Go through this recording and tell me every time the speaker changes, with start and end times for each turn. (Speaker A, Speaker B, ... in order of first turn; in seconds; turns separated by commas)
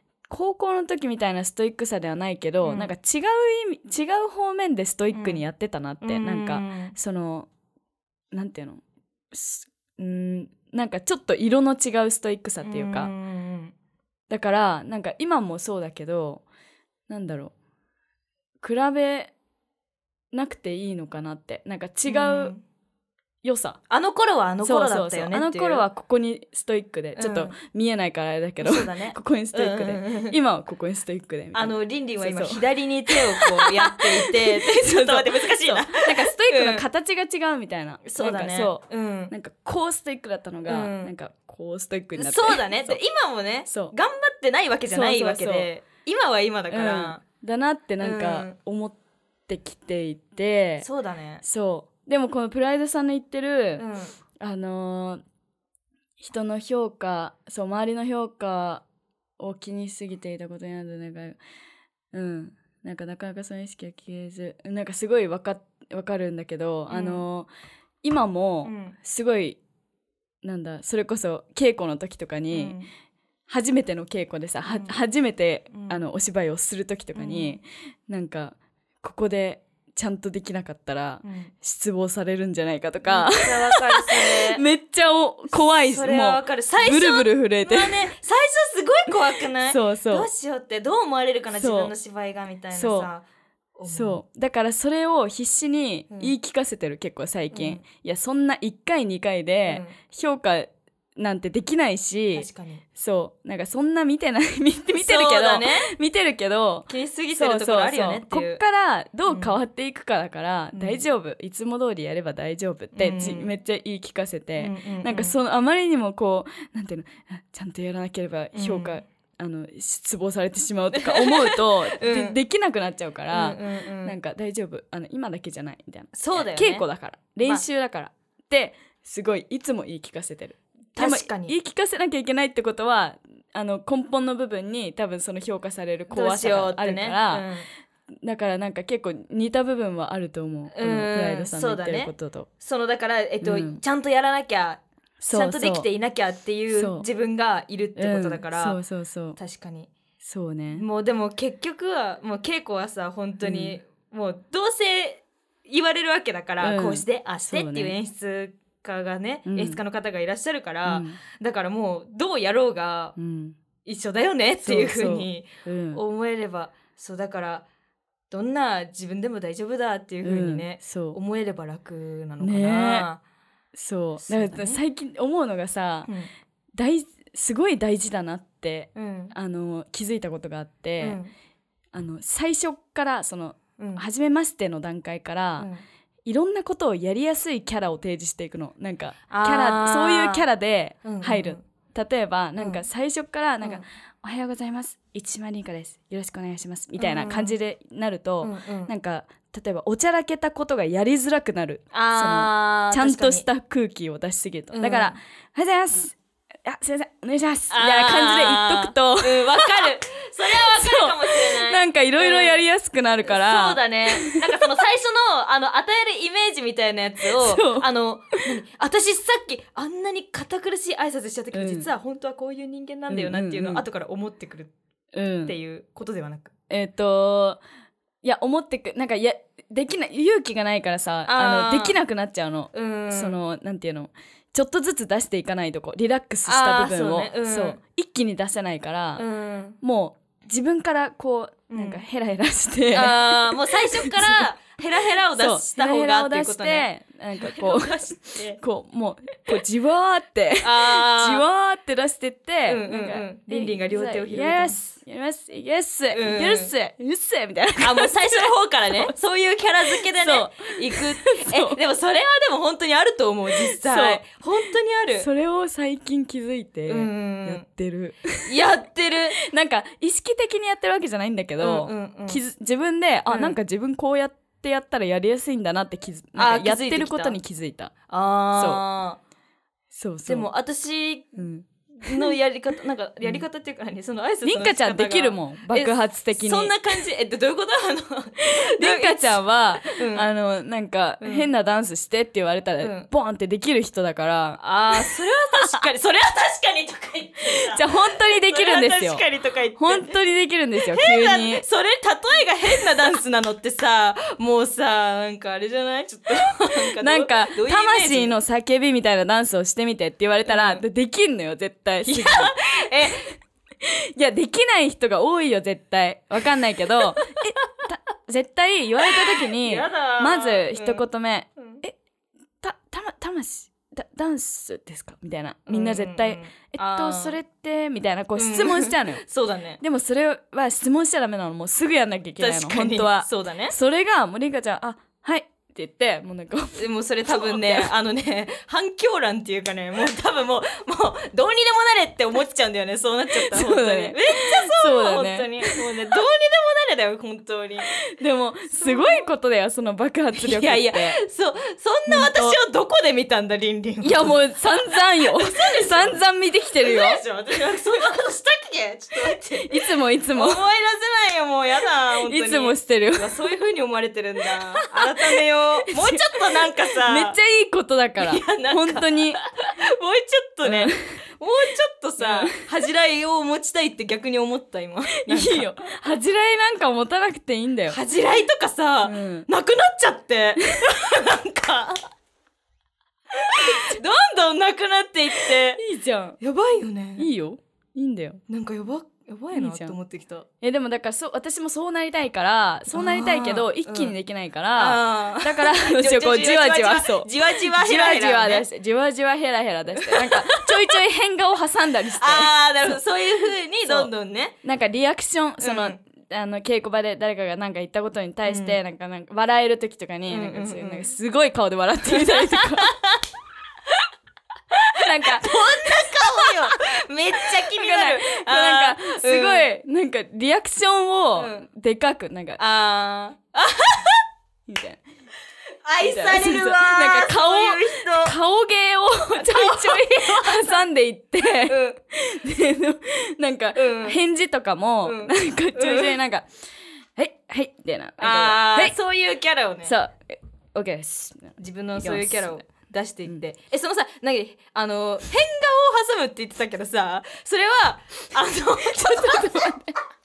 Speaker A: 0.3-7.5, Speaker B: 2.6-2.9, Speaker B: 5.1-5.4, Speaker B: 6.0-6.9, Speaker A: 8.3-8.8, Speaker A: 9.3-13.1, Speaker B: 12.6-13.7, Speaker A: 14.3-16.4, Speaker A: 17.1-17.5, Speaker A: 18.6-19.3, Speaker A: 20.3-22.5, Speaker B: 22.1-22.6, Speaker A: 23.4-23.8, Speaker B: 23.9-25.9, Speaker A: 24.6-43.0, Speaker B: 27.1-27.5, Speaker B: 28.6-30.4, Speaker B: 31.5-36.8, Speaker B: 38.0-39.3, Speaker B: 40.6-41.1, Speaker B: 42.1-47.2, Speaker A: 43.7-43.9, Speaker A: 44.9-45.7, Speaker A: 46.7-49.0, Speaker B: 48.0-48.5, Speaker A: 49.5-50.9, Speaker B: 50.8-51.4, Speaker A: 51.4-53.8, Speaker B: 53.8-54.1, Speaker A: 54.4-55.2, Speaker A: 56.2-58.8, Speaker A: 59.4-61.4, Speaker A: 62.1-67.5, Speaker B: 66.9-67.2, Speaker A: 68.0-69.6, Speaker B: 68.6-69.0, Speaker A: 70.4-72.8, Speaker B: 72.5-72.9, Speaker A: 73.5-88.1, Speaker B: 74.7-75.0, Speaker B: 75.7-76.0, Speaker B: 77.1-77.6, Speaker B: 81.2-81.5, Speaker B: 83.0-84.6, Speaker B: 85.5-93.2, Speaker A: 89.6-90.3, Speaker A: 91.5-91.9, Speaker A: 92.7-93.1, Speaker B: 93.8-94.2, Speaker A: 93.9-137.4, Speaker B: 97.5-97.8, Speaker B: 99.7-99.9, Speaker B: 102.3-102.8, Speaker B: 104.9-105.9, Speaker B: 106.9-108.6, Speaker B: 109.3-109.5, Speaker B: 110.7-111.0, Speaker B: 112.9-113.5, Speaker B: 114.6-115.3, Speaker B: 118.5-119.0, Speaker B: 121.0-122.4, Speaker B: 123.3-124.1, Speaker B: 126.1-126.8, Speaker B: 130.9-131.5, Speaker B: 136.1-137.7, Speaker A: 138.2-142.5, Speaker B: 140.7-148.8, Speaker A: 143.4-143.8, Speaker A: 145.2-145.9, Speaker A: 146.7-147.0, Speaker A: 147.9-149.4, Speaker B: 149.4-149.9, Speaker A: 150.2-150.8, Speaker B: 150.7-163.2, Speaker A: 153.4-153.8, Speaker A: 156.6-157.9, Speaker A: 159.4-159.8, Speaker A: 160.8-161.2, Speaker A: 163.2-163.6, Speaker B: 163.8-167.7, Speaker A: 164.6-166.0, Speaker B: 168.3-173.2, Speaker A: 170.2-171.2, Speaker A: 172.4-173.1, Speaker A: 173.7-176.1, Speaker B: 174.2-174.8, Speaker A: 176.8-181.2, Speaker B: 178.9-179.3, Speaker B: 181.0-181.3, Speaker A: 181.9-185.7, Speaker B: 183.8-184.0, Speaker B: 185.6-185.8, Speaker A: 186.2-209.9, Speaker B: 189.3-190.4, Speaker B: 191.0-191.6, Speaker B: 192.6-192.8, Speaker B: 197.0-197.6, Speaker B: 198.4-198.9, Speaker B: 201.9-203.5, Speaker B: 204.7-205.2, Speaker B: 207.7-212.6, Speaker A: 210.5-214.4, Speaker B: 213.2-224.7, Speaker A: 217.4-217.9, Speaker A: 221.5-221.9, Speaker A: 223.1-223.8, Speaker A: 225.1-225.5, Speaker B: 225.4-226.5, Speaker A: 226.7-227.6, Speaker A: 228.2-239.2, Speaker B: 231.3-232.0, Speaker B: 232.7-233.4, Speaker B: 236.4-237.8, Speaker B: 239.2-239.8, Speaker A: 239.8-244.4, Speaker B: 241.7-242.0, Speaker B: 242.9-248.6, Speaker A: 245.3-259.1, Speaker B: 250.6-251.4, Speaker B: 252.7-254.8, Speaker B: 256.1-256.7, Speaker B: 257.8-265.3, Speaker A: 259.9-261.8, Speaker A: 263.6-264.2, Speaker A: 265.1-268.5, Speaker B: 266.9-267.6, Speaker B: 268.4-269.4, Speaker A: 269.5-277.9, Speaker B: 271.6-272.4, Speaker B: 273.3-273.6, Speaker B: 276.3-277.4, Speaker B: 278.1-279.2, Speaker A: 278.5-278.8, Speaker A: 279.9-280.5, Speaker B: 280.3-290.3, Speaker A: 281.4-282.3, Speaker A: 283.2-283.4, Speaker A: 284.4-286.8, Speaker A: 288.4-295.8, Speaker B: 291.2-291.5, Speaker B: 292.8-293.1, Speaker B: 294.6-300.1, Speaker A: 297.7-299.2, Speaker A: 299.8-301.6, Speaker B: 300.8-308.4, Speaker A: 307.0-312.5, Speaker B: 310.5-310.8, Speaker B: 312.0-313.3, Speaker A: 313.8-321.9, Speaker B: 319.2-321.0, Speaker B: 321.6-321.8, Speaker A: 322.6-329.2, Speaker B: 325.7-327.4, Speaker B: 328.4-329.8, Speaker A: 329.8-337.9, Speaker B: 332.4-333.7, Speaker B: 336.8-348.0, Speaker A: 343.3-345.8, Speaker A: 348.1-351.2, Speaker B: 348.7-349.2, Speaker B: 350.4-356.2, Speaker A: 352.1-352.6, Speaker A: 354.0-357.2, Speaker B: 356.8-367.4, Speaker A: 359.3-360.6, Speaker A: 362.2-363.3, Speaker A: 365.9-366.4, Speaker A: 366.9-369.4, Speaker B: 368.2-375.7, Speaker A: 370.6-371.1, Speaker A: 372.2-372.6, Speaker A: 375.2-378.0, Speaker B: 377.9-382.1, Speaker A: 379.0-379.5, Speaker B: 383.4-385.8, Speaker A: 385.4-386.4, Speaker B: 386.4-387.3, Speaker A: 387.2-388.4, Speaker B: 388.5-390.4, Speaker A: 389.5-390.0, Speaker A: 390.6-403.0, Speaker B: 392.9-394.1, Speaker B: 394.7-398.7, Speaker B: 400.1-400.9, Speaker B: 402.0-404.6, Speaker A: 403.8-404.1, Speaker A: 404.6-412.9, Speaker B: 405.6-406.0, Speaker B: 408.4-408.8, Speaker B: 410.3-411.1, Speaker B: 412.1-413.2, Speaker B: 414.7-419.6, Speaker A: 415.0-416.8, Speaker A: 417.7-422.6, Speaker B: 421.4-421.6, Speaker B: 422.6-424.2, Speaker A: 424.7-425.0, Speaker B: 425.8-428.4, Speaker A: 426.0-438.9, Speaker B: 429.3-430.9, Speaker B: 431.4-432.0, Speaker B: 433.7-434.2, Speaker B: 435.0-436.2, Speaker B: 438.2-439.9, Speaker A: 439.9-442.6, Speaker B: 441.6-449.8, Speaker A: 449.0-449.9